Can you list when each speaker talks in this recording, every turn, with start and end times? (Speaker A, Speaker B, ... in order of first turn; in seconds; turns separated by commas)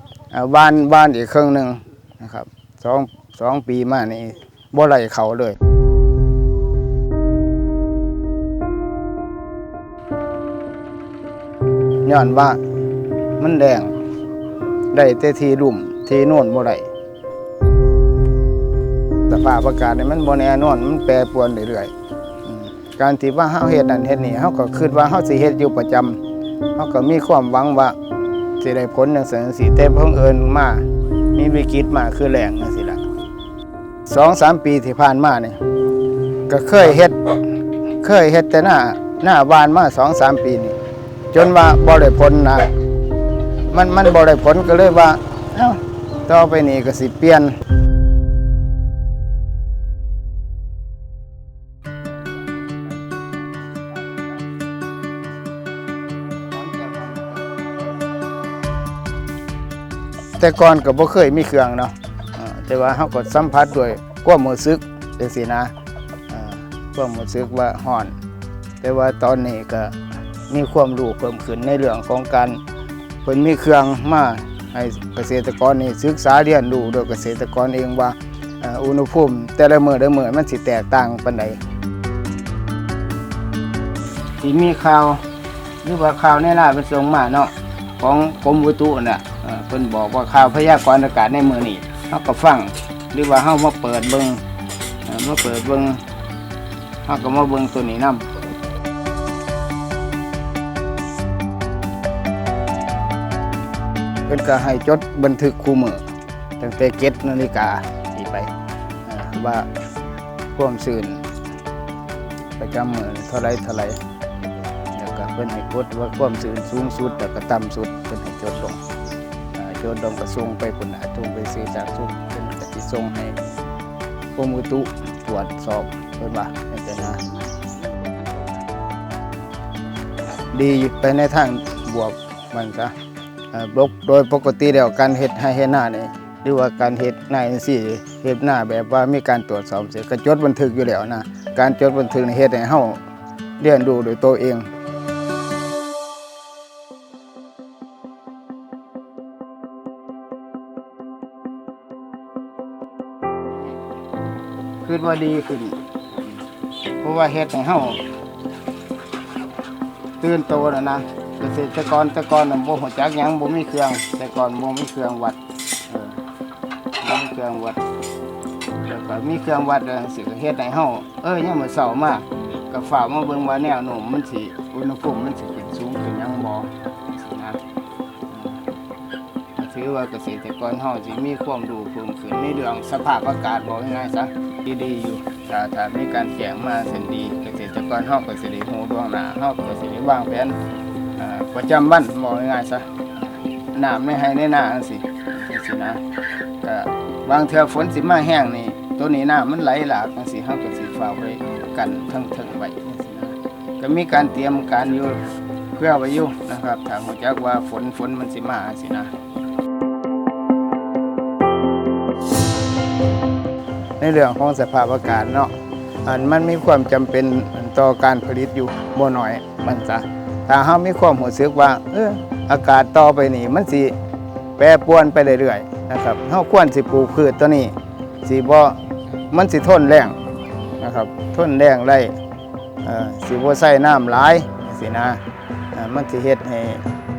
Speaker A: 0.3-5.6, Speaker A: 12.1-12.6, Speaker A: 13.4-13.9, Speaker A: 14.9-16.9, Speaker A: 19.3-21.9, Speaker A: 22.4-26.2, Speaker A: 26.8-28.0, Speaker A: 28.6-33.0, Speaker A: 34.1-35.6, Speaker A: 36.5-37.2, Speaker A: 38.0-40.8, Speaker A: 41.3-42.7, Speaker A: 43.7-47.6, Speaker A: 53.1-54.4, Speaker A: 56.5-57.7, Speaker A: 60.4-65.7, Speaker A: 66.3-68.2, Speaker A: 68.8-70.0, Speaker A: 70.5-72.6, Speaker A: 73.2-81.6, Speaker A: 84.4-85.2, Speaker A: 85.8-94.4, Speaker A: 95.1-96.0, Speaker A: 97.0-98.3, Speaker A: 104.3-106.0, Speaker A: 106.6-108.5, Speaker A: 109.1-109.7, Speaker A: 110.5-111.2, Speaker A: 112.6-114.0, Speaker A: 114.9-118.8, Speaker A: 119.5-123.4, Speaker A: 124.3-127.2, Speaker A: 130.5-132.9, Speaker A: 133.5-143.0, Speaker A: 143.6-144.7, Speaker A: 154.8-156.4, Speaker A: 157.0-158.0, Speaker A: 160.2-166.2, Speaker A: 167.0-167.8, Speaker A: 168.8-177.6, Speaker A: 178.3-178.6, Speaker A: 179.6-190.6, Speaker A: 191.2-196.0, Speaker A: 196.6-205.2, Speaker A: 205.8-209.1, Speaker A: 214.0-215.5, Speaker A: 216.1-224.0, Speaker A: 224.6-228.8, Speaker A: 229.3-230.2, Speaker A: 230.8-232.2, Speaker A: 232.8-235.2, Speaker A: 235.7-236.9